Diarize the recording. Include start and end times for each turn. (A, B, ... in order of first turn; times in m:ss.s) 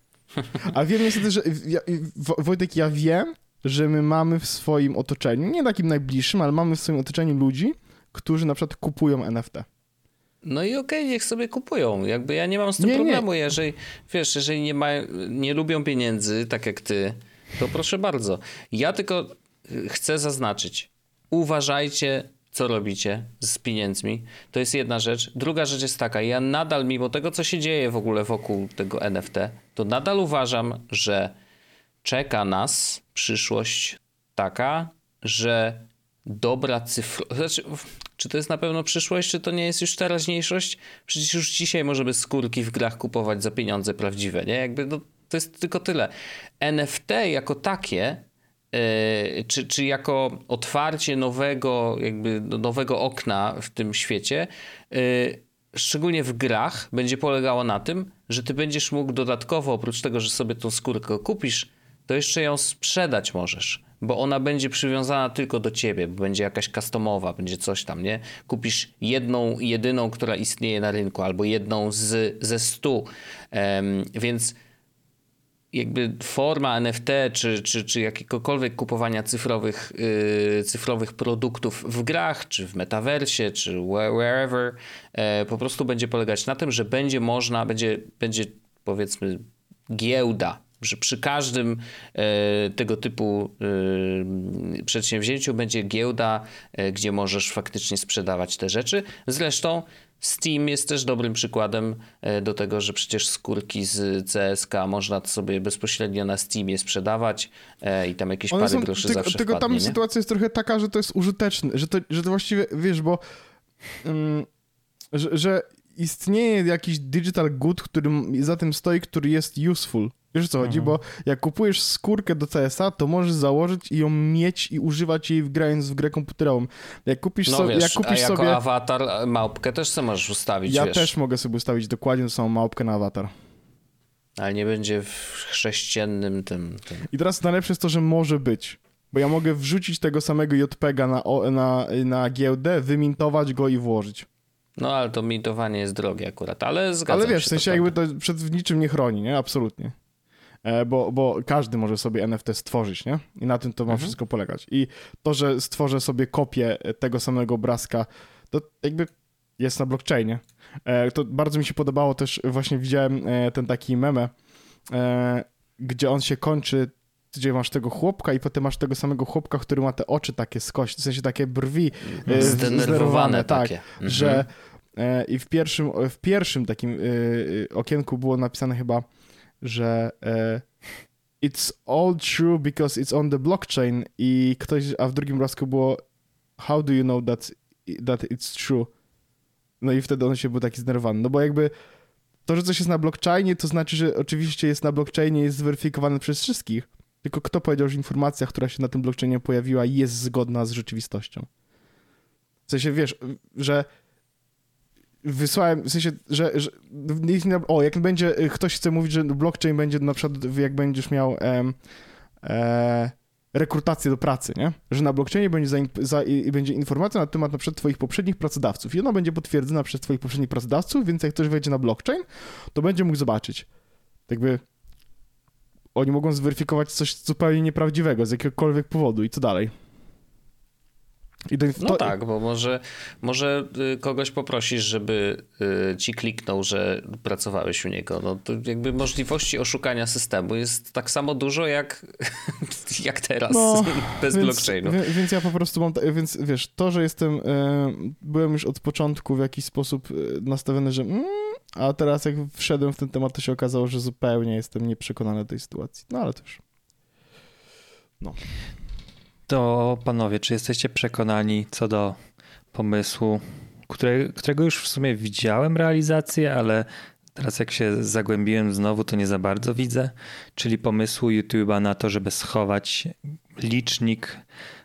0:00.6-0:09.6 A
0:10.4-0:31.3 B
0:12.8-0:13.2 A
0:32.0-1:14.6 B
1:15.7-1:50.0 B
1:48.5-1:53.2 A
1:54.0-1:54.5 A
1:55.1-2:08.6 A
2:00.6-2:00.9 C
2:07.4-2:11.1 B
2:10.6-2:13.3 A
2:14.4-2:17.1 B
2:17.1-2:24.3 A
2:24.8-2:27.9 B
2:27.1-2:29.9 A
2:30.6-2:44.3 A
2:33.9-2:34.1 B
2:44.9-2:59.0 A
2:52.1-2:54.4 B
2:52.3-2:52.6 C
2:59.6-3:00.6 A
3:01.4-3:06.0 A
3:06.6-3:08.9 A
3:09.8-3:11.7 A
3:12.4-3:21.5 A
3:22.7-3:23.9 A
3:25.2-3:31.8 A
3:32.4-3:43.7 A
3:44.3-3:44.6 A
3:45.9-3:49.7 A
3:51.5-3:52.1 A
3:51.8-4:05.0 B
4:03.5-4:16.6 A
4:19.5-4:22.2 C
4:22.7-4:34.4 C